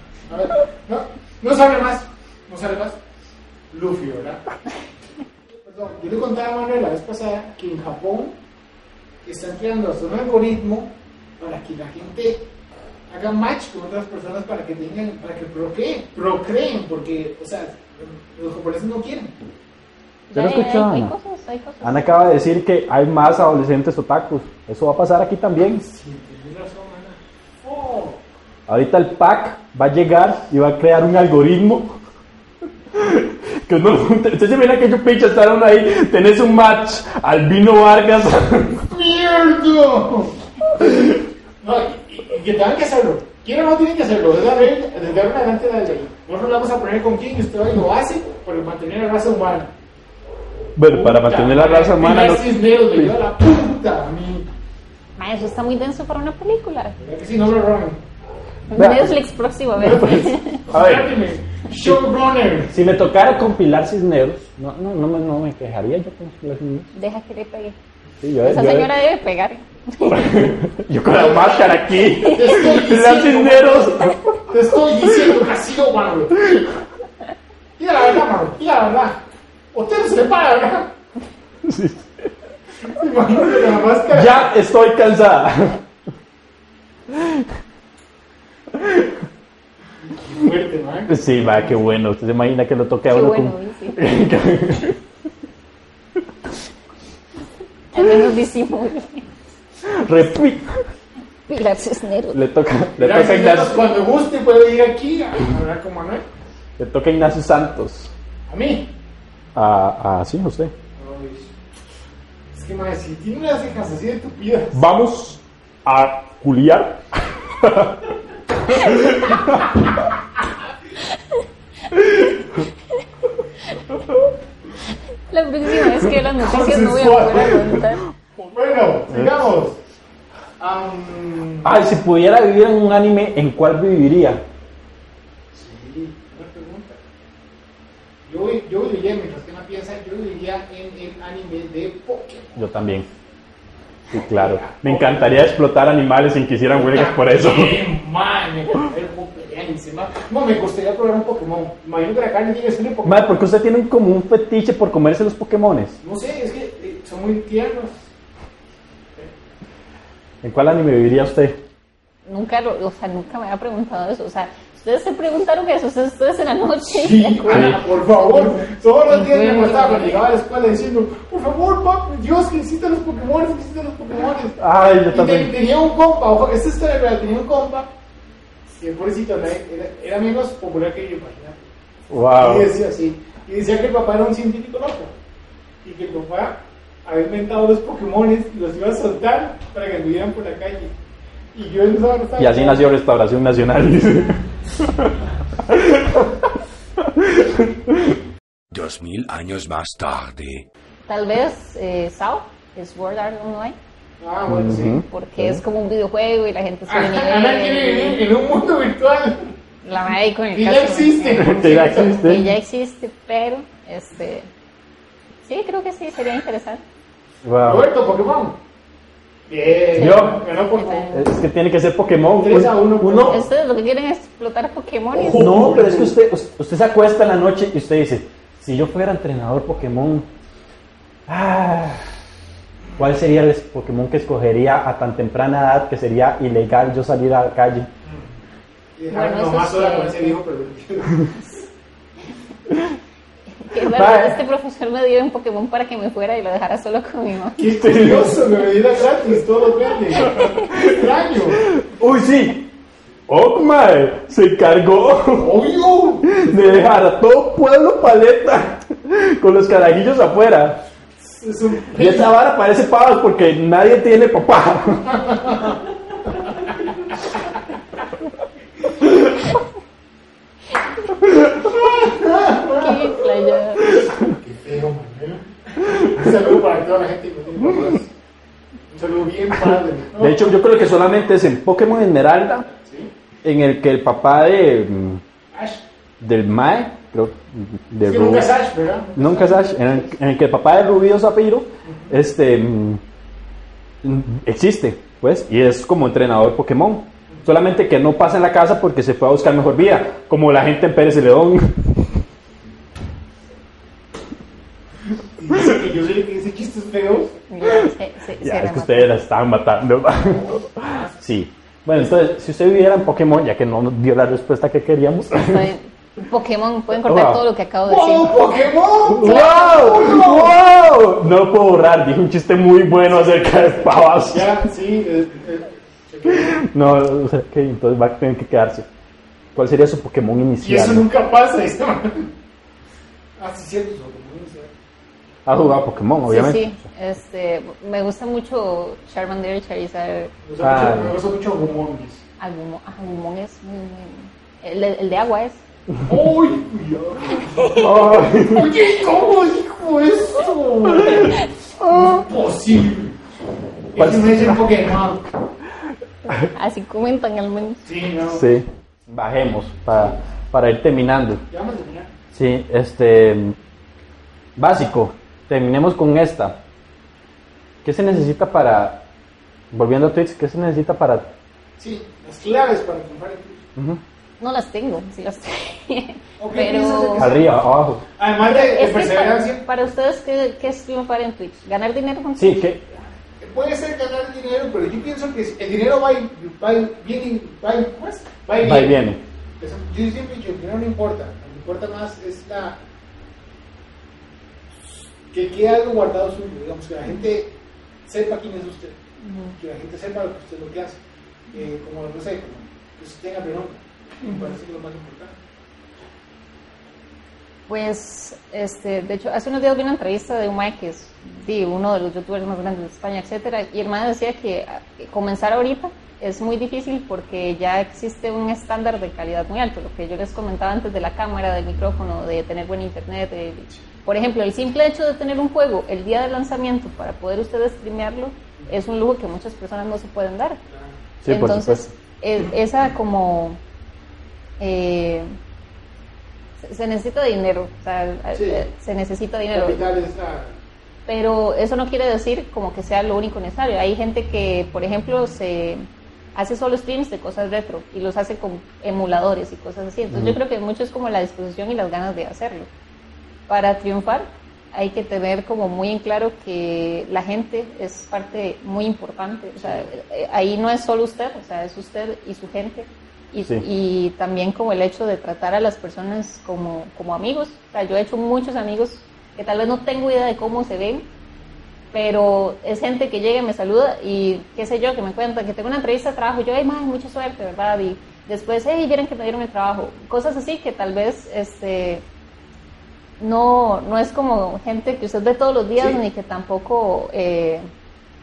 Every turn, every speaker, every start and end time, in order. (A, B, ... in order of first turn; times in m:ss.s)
0:00.3-0:03.0 A
0:03.7-0:04.4 A
0:05.5-0:08.4 A
0:09.2-0:12.5 A
0:13.1-0:19.4 A
0:20.3-0:22.2 B
0:20.3-0:21.1 C
0:21.8-0:25.8 C
0:25.8-0:28.2 A
0:28.7-0:32.0 C
0:32.9-0:38.9 C
0:38.9-0:49.7 A
0:50.8-0:53.2 C
0:50.9-0:54.5 A
0:55.2-0:57.0 B
0:57.0-0:58.0 A
0:58.7-1:00.6 B
0:58.8-0:59.2 C
0:59.8-1:02.8 A
0:59.8-1:01.1 C
1:02.7-1:06.9 C
1:07.0-1:07.8 B
1:08.2-1:08.9 C
1:08.4-1:10.5 B
1:10.1-1:14.2 C
1:11.1-1:16.7 A
1:12.2-1:12.6 B
1:17.8-1:19.2 A
1:19.7-1:20.9 A
1:21.6-1:22.3 C
1:22.8-1:24.5 A
1:24.1-1:25.8 C
1:27.1-1:27.4 C
1:28.8-1:29.1 C
1:30.1-1:31.8 A
1:31.1-1:35.0 C
1:33.1-1:34.0 B
1:37.9-1:39.3 B
1:39.8-1:40.8 C
1:41.5-1:42.4 B
1:42.3-1:43.8 C
1:43.0-1:46.2 A
1:46.8-1:48.1 C
1:48.5-1:48.9 A
1:49.6-1:50.7 C
1:51.0-1:51.5 A
1:52.5-1:54.8 A
1:54.7-1:59.8 C
2:01.1-2:01.4 B
2:05.3-2:08.0 B
2:06.3-2:07.8 A
2:08.4-2:09.8 A
2:10.6-2:11.7 A
2:11.6-2:14.4 C
2:15.5-2:17.0 A
2:18.3-2:22.6 A
2:22.6-2:23.1 C
2:24.1-2:27.8 C
2:24.1-2:25.3 A
2:26.8-2:33.3 A
2:33.0-2:36.0 C
2:36.0-2:38.1 A
2:40.4-2:41.6 C
2:42.3-2:50.2 B
2:46.9-2:57.9 A
2:47.5-2:47.8 C
2:54.6-2:55.5 C
2:58.8-3:01.6 A
3:02.1-3:02.7 C
3:02.3-3:05.1 A
3:05.8-3:10.9 A
3:11.5-3:12.8 A
3:12.4-3:18.2 C
3:18.7-3:20.7 D
3:21.1-3:23.8 B
3:24.2-3:25.0 A
3:24.5-3:25.6 C
3:25.0-3:28.2 B
3:26.9-3:29.5 A
3:29.8-3:34.5 B
3:30.5-3:32.4 A
3:31.4-3:32.5 C
3:35.4-3:36.8 B
3:37.4-3:37.9 C
3:37.6-3:38.6 A
3:39.5-3:41.2 A
3:40.0-3:40.4 C
3:40.0-3:41.3 B
3:41.1-3:43.4 C
3:42.4-3:43.5 A
3:43.3-3:45.6 B
3:45.1-3:46.2 A
3:45.4-3:50.3 C
3:51.3-3:52.0 C
3:53.0-3:57.9 C
3:59.0-4:01.3 A
3:59.1-4:00.4 B
4:03.6-4:07.7 B
4:03.9-4:04.4 C
4:07.6-4:11.7 A
4:07.7-4:08.5 C
4:10.2-4:11.0 C
4:11.7-4:12.7 C
4:13.3-4:15.6 C
4:15.3-4:17.0 A
4:16.3-4:20.8 C
4:21.2-4:22.3 A
4:21.9-4:25.2 C
4:25.3-4:25.8 A
4:26.4-4:26.7 A
4:31.6-4:33.2 A
4:32.7-4:34.0 B
4:34.2-4:38.1 A
4:38.9-4:40.6 A
4:40.2-4:42.7 C
4:42.8-4:43.1 A
4:43.4-4:45.2 C
4:45.5-4:45.8 A
4:46.2-4:48.5 C
4:48.0-4:50.1 A
4:49.2-4:53.0 C
4:51.9-4:52.1 A
4:54.0-5:02.0 C
5:05.4-5:07.4 A
5:07.5-5:09.1 B
5:08.4-5:15.7 C
5:10.3-5:11.2 A
5:12.0-5:12.2 A
5:15.3-5:18.4 B
5:16.9-5:17.4 C
5:17.9-5:20.6 A
5:19.1-5:24.5 C
5:19.2-5:20.2 B
5:23.1-5:26.6 A
5:26.3-5:28.9 C
5:29.6-5:31.1 C
5:30.6-5:32.3 A
5:33.4-5:34.7 A
5:35.5-5:36.7 C
5:36.3-5:40.3 B
5:40.4-5:42.2 A
5:40.6-5:41.2 C
5:42.4-5:45.6 B
5:46.0-5:53.2 A
5:47.6-5:47.9 B
5:47.8-5:48.7 C
5:51.2-5:51.5 B
5:53.9-5:55.2 A
5:54.0-5:54.6 C
5:56.5-5:57.8 B
5:57.8-5:58.4 A
5:58.3-6:01.4 C
5:59.9-6:00.2 A
6:01.5-6:02.1 A
6:02.3-6:03.6 C
6:04.6-6:06.6 C
6:07.8-6:09.0 C
6:09.7-6:11.3 C
6:11.8-6:13.7 A
6:13.8-6:14.0 C
6:14.4-6:17.3 B
6:16.4-6:17.6 A
6:17.2-6:18.0 C
6:18.2-6:19.6 A
6:18.4-6:22.7 B
6:22.4-6:22.9 C
6:23.4-6:29.0 A
6:28.6-6:29.2 C
6:29.6-6:32.8 A
6:35.3-6:37.5 A
6:38.1-6:39.0 A
6:39.2-6:39.5 B
6:39.6-6:41.0 A
6:41.5-6:45.4 A
6:44.2-6:44.5 B
6:47.7-7:10.6 B
7:11.2-7:11.9 C
7:11.3-7:13.6 B
7:14.6-7:15.3 B
7:16.6-7:19.8 B
7:18.3-7:18.6 A
7:19.5-7:20.6 A
7:21.1-7:25.8 B
7:26.4-7:32.7 B
7:30.1-7:30.4 C
7:33.5-7:51.1 B
7:39.6-7:39.9 A
7:51.9-8:02.0 B
8:03.2-8:07.6 B